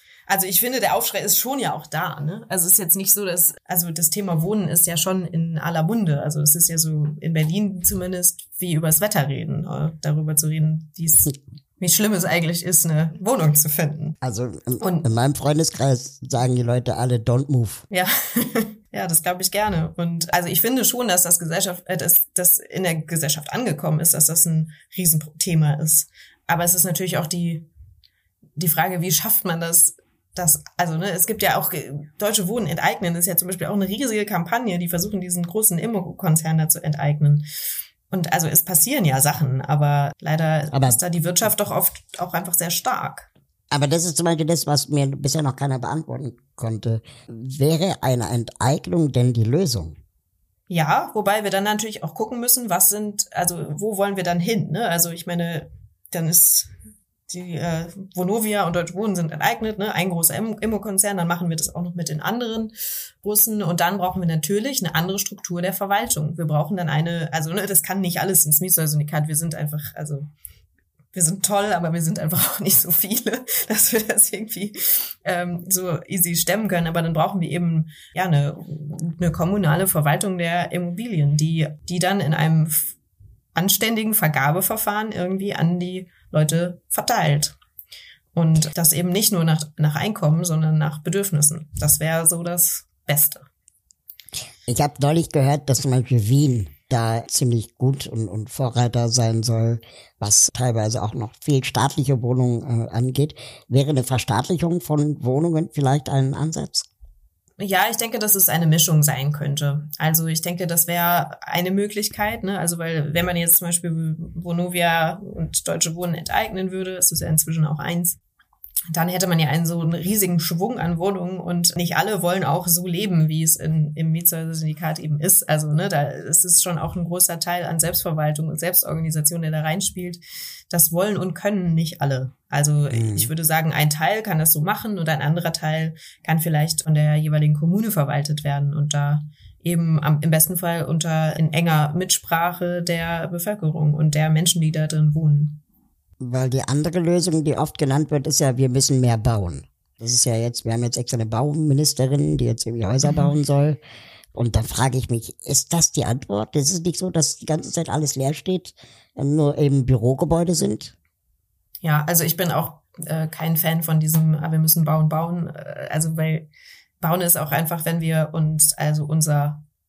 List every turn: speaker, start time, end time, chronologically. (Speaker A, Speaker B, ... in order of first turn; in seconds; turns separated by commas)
Speaker A: 0.3-14.2, Speaker B: 14.2-17.8, Speaker A: 14.8-15.1, Speaker A: 17.9-27.7, Speaker A: 28.6-37.5, Speaker A: 38.1-43.3, Speaker B: 40.7-41.0, Speaker B: 43.7-50.0, Speaker A: 50.7-56.7, Speaker A: 57.3-70.3, Speaker A: 71.1-83.0, Speaker A: 83.5-87.6, Speaker A: 88.3-93.5, Speaker B: 94.7-106.9, Speaker A: 107.6-118.2, Speaker A: 118.9-145.6, Speaker B: 132.9-133.3, Speaker B: 146.2-153.8, Speaker A: 153.1-153.3, Speaker B: 154.3-160.9, Speaker A: 161.8-166.5, Speaker A: 167.0-169.6